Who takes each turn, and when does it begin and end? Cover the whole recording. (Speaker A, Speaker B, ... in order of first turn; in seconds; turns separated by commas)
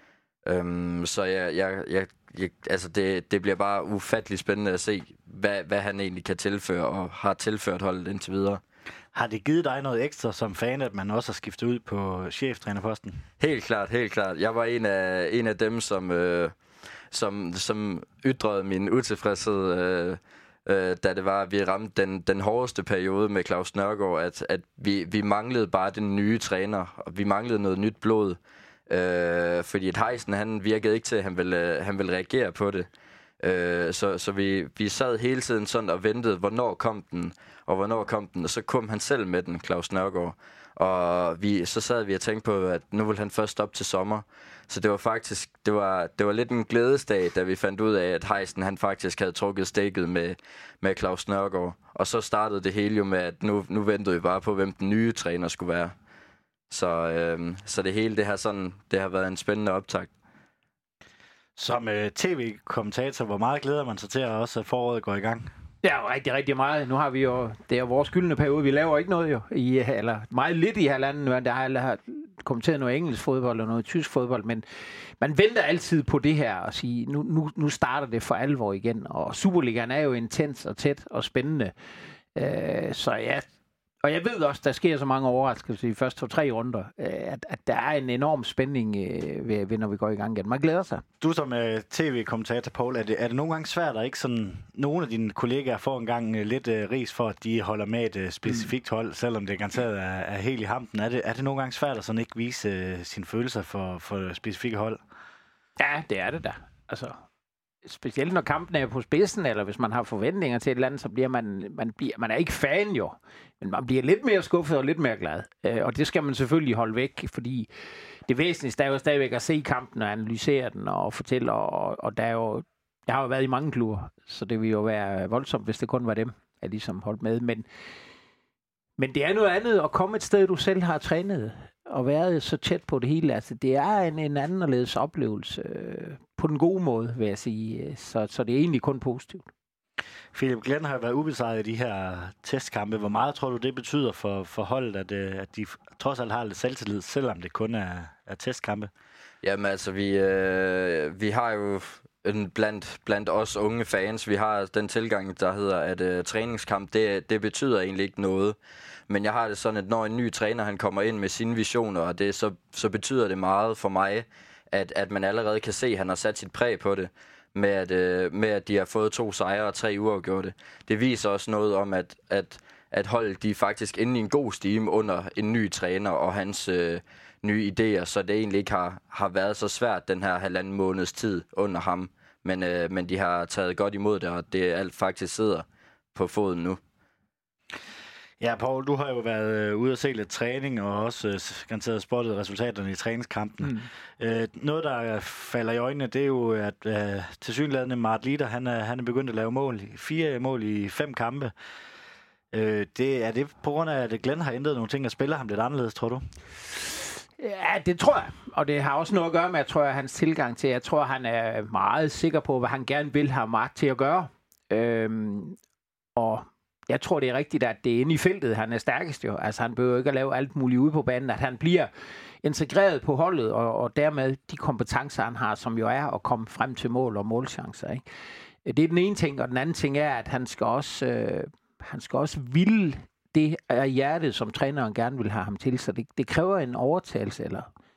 Speaker A: 0.5-8.6, Speaker B: 9.1-13.2, Speaker A: 13.4-16.5, Speaker A: 17.1-32.9, Speaker A: 33.4-55.9, Speaker A: 56.7-60.1, Speaker B: 61.6-65.5, Speaker C: 65.8-81.7, Speaker C: 82.3-83.5, Speaker C: 84.0-91.0, Speaker B: 91.2-105.0, Speaker C: 105.8-107.2, Speaker C: 107.8-117.7, Speaker C: 118.3-127.7, Speaker C: 129.0-139.5, Speaker B: 140.3-148.9, Speaker A: 149.4-158.6, Speaker A: 159.1-186.8, Speaker B: 188.4-201.5, Speaker B: 202.5-206.2, Speaker C: 207.4-215.6, Speaker C: 216.2-221.9, Speaker C: 222.4-228.0, Speaker C: 228.6-237.7